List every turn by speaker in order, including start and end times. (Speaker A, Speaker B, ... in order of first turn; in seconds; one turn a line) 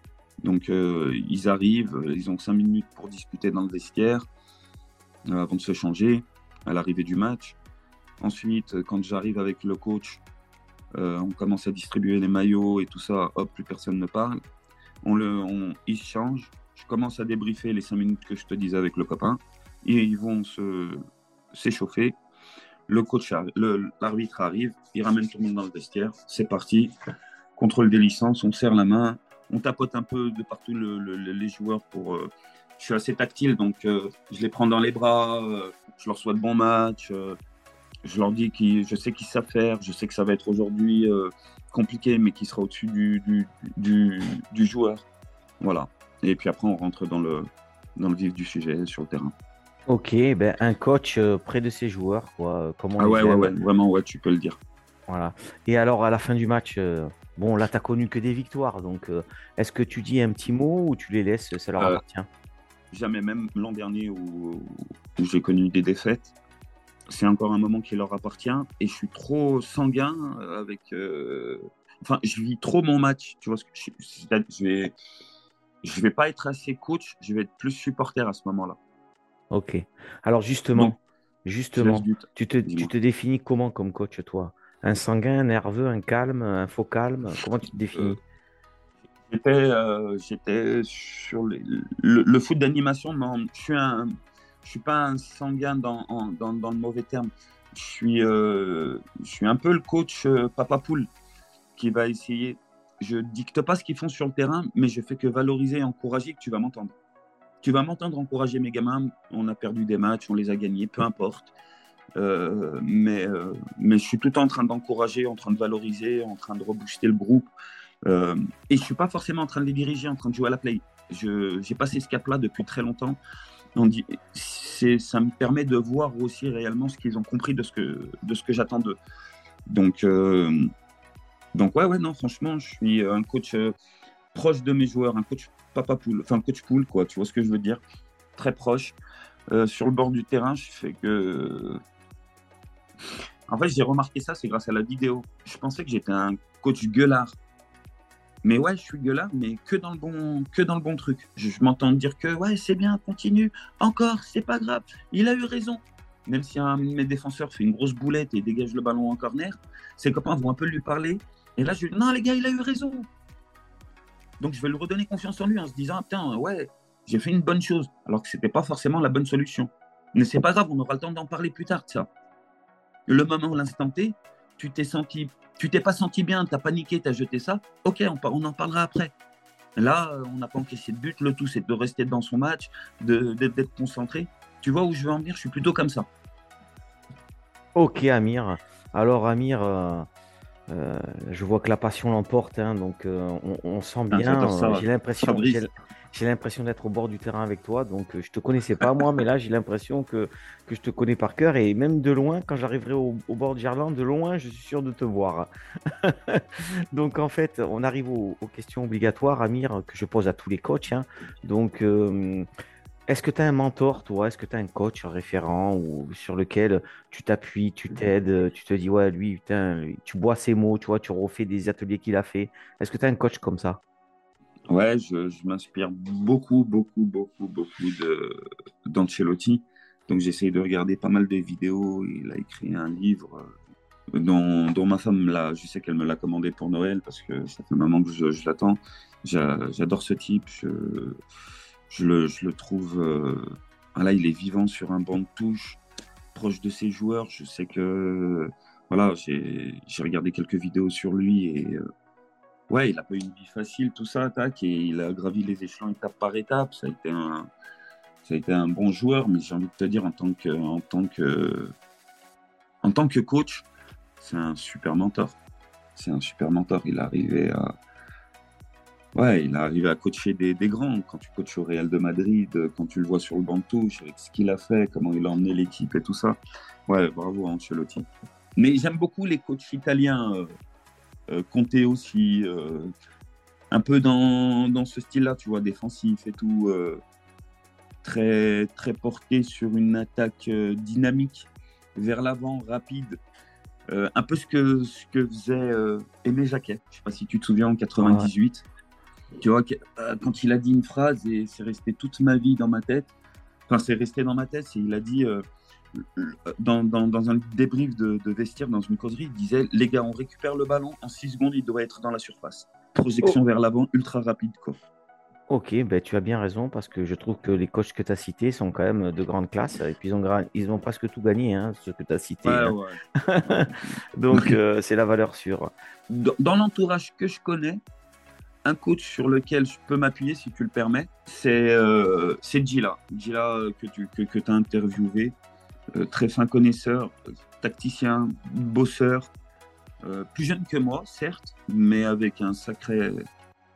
Speaker A: 0.4-4.3
Speaker A: 5.3-7.6
Speaker A: 8.2-10.2
Speaker A: 10.9-14.4
Speaker A: 15.0-21.0
Speaker A: 21.5-22.2
Speaker A: 22.9-26.9
Speaker A: 27.6-37.4
Speaker A: 38.0-45.0
Speaker A: 45.6-49.3
Speaker B: 49.9-53.5
Speaker A: 53.0-54.6
Speaker B: 55.1-62.3
Speaker A: 62.9-66.3
Speaker A: 67.1-75.0
Speaker A: 75.8-78.8
Speaker B: 79.5-88.2
Speaker A: 81.8-82.9
Speaker A: 89.3-94.1
Speaker A: 94.6-101.1
Speaker A: 101.8-107.0
Speaker A: 107.6-111.5
Speaker A: 112.2-117.5
Speaker A: 118.1-123.2
Speaker A: 123.8-129.0
Speaker A: 129.7-130.6
Speaker A: 131.6-133.7
Speaker A: 134.3-137.8
Speaker A: 138.4-139.0
Speaker A: 139.5-141.8
Speaker A: 143.5-147.4
Speaker A: 148.4-163.1
Speaker A: 164.4-172.1
Speaker A: 173.1-179.1
Speaker A: 179.8-186.1
Speaker B: 187.8-190.1
Speaker B: 190.7-205.5
Speaker A: 194.1-195.6
Speaker B: 206.0-212.4
Speaker B: 213.1-223.8
Speaker A: 224.7-233.6
Speaker A: 234.2-241.2
Speaker A: 241.9-243.4
Speaker A: 244.0-245.8
Speaker A: 246.3-251.8
Speaker A: 252.7-257.5
Speaker A: 258.2-261.8
Speaker A: 262.8-263.7
Speaker A: 264.2-265.4
Speaker A: 266.0-267.7
Speaker A: 269.1-280.5
Speaker A: 281.3-282.9
Speaker A: 283.7-287.0
Speaker A: 288.0-293.2
Speaker A: 293.9-298.6
Speaker B: 298.0-298.3
Speaker A: 299.4-303.1
Speaker A: 303.7-314.8
Speaker B: 315.5-325.7
Speaker A: 322.4-324.6
Speaker A: 326.1-327.8
Speaker A: 328.6-335.4
Speaker A: 335.9-339.3
Speaker A: 340.1-343.2